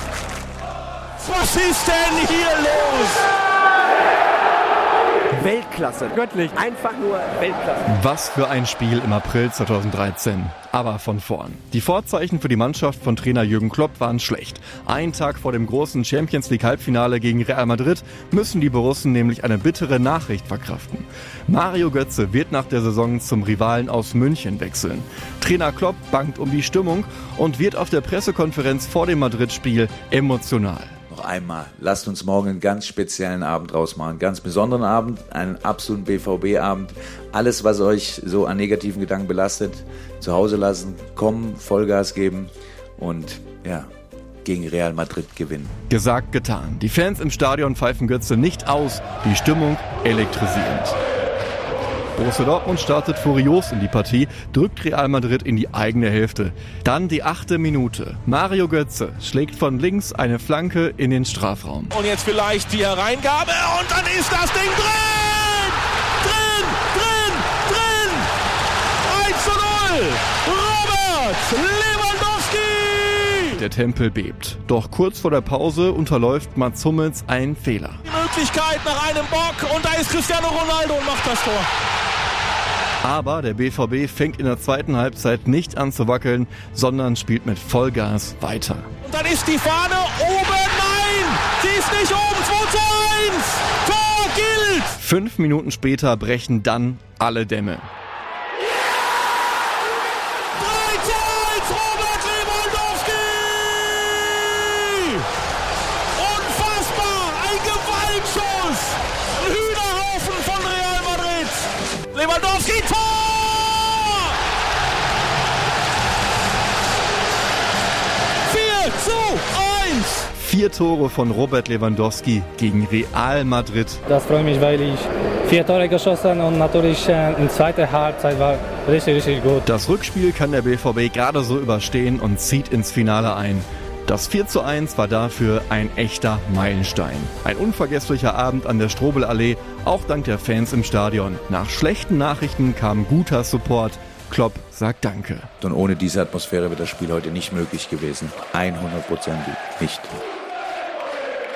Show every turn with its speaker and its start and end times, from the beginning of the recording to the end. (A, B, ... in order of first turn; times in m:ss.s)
0:01.2-0:03.3 A
0:05.3-0:07.8 B
0:07.9-0:31.0 C
0:31.1-0:43.9 D
0:44.4-0:45.7 D
0:45.9-0:51.0 C
0:52.2-1:01.9 C
1:01.9-1:08.3 A
1:09.0-1:13.6 A
1:13.5-1:18.0 C
1:18.0-1:21.7 A
1:23.0-1:28.9 C
1:29.0-1:34.9 A
1:35.0-1:37.9 C
1:40.6-1:45.2 A
1:46.2-1:54.3 A
1:58.5-2:00.3 A
2:00.3-2:04.0 C
2:04.1-2:09.6 E
2:09.6-2:25.5 C
2:25.6-2:30.1 D